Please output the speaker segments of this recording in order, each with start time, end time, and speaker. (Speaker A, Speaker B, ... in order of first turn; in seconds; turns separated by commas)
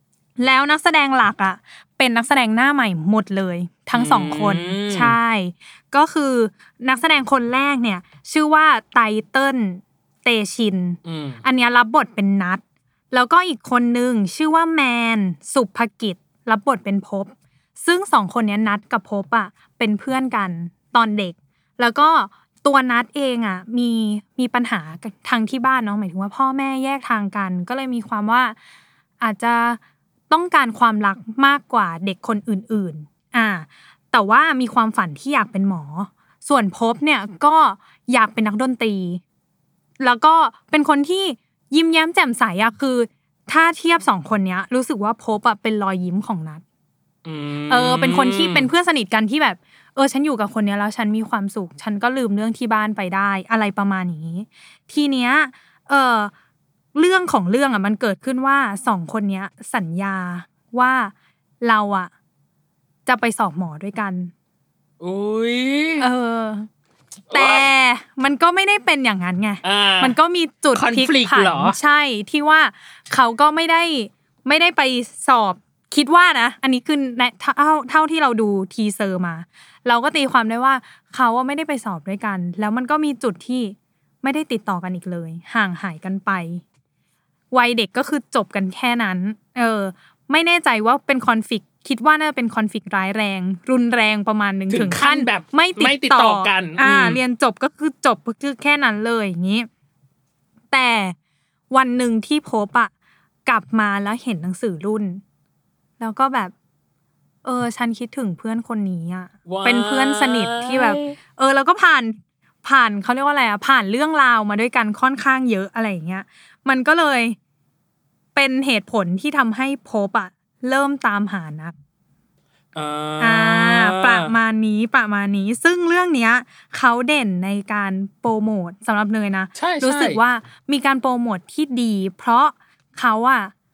Speaker A: 0.4-28.6, Speaker B: 3.9-5.2, Speaker B: 11.0-11.4, Speaker A: 29.2-39.2, Speaker A: 40.0-46.6, Speaker B: 47.2-48.7, Speaker A: 47.7-56.3, Speaker A: 56.9-62.1, Speaker A: 63.0-64.3, Speaker B: 65.0-66.0, Speaker A: 66.0-66.7, Speaker B: 67.3-67.7, Speaker A: 67.3-86.6, Speaker B: 69.6-70.2, Speaker B: 70.7-71.8, Speaker A: 87.5-99.7, Speaker B: 94.7-97.2, Speaker A: 100.7-101.1, Speaker A: 101.7-102.9, Speaker A: 103.5-105.2, Speaker A: 106.0-106.5, Speaker A: 107.4-117.4, Speaker B: 109.5-111.2, Speaker A: 118.3-121.7, Speaker B: 122.7-124.3, Speaker A: 123.2-133.5, Speaker B: 129.5-130.2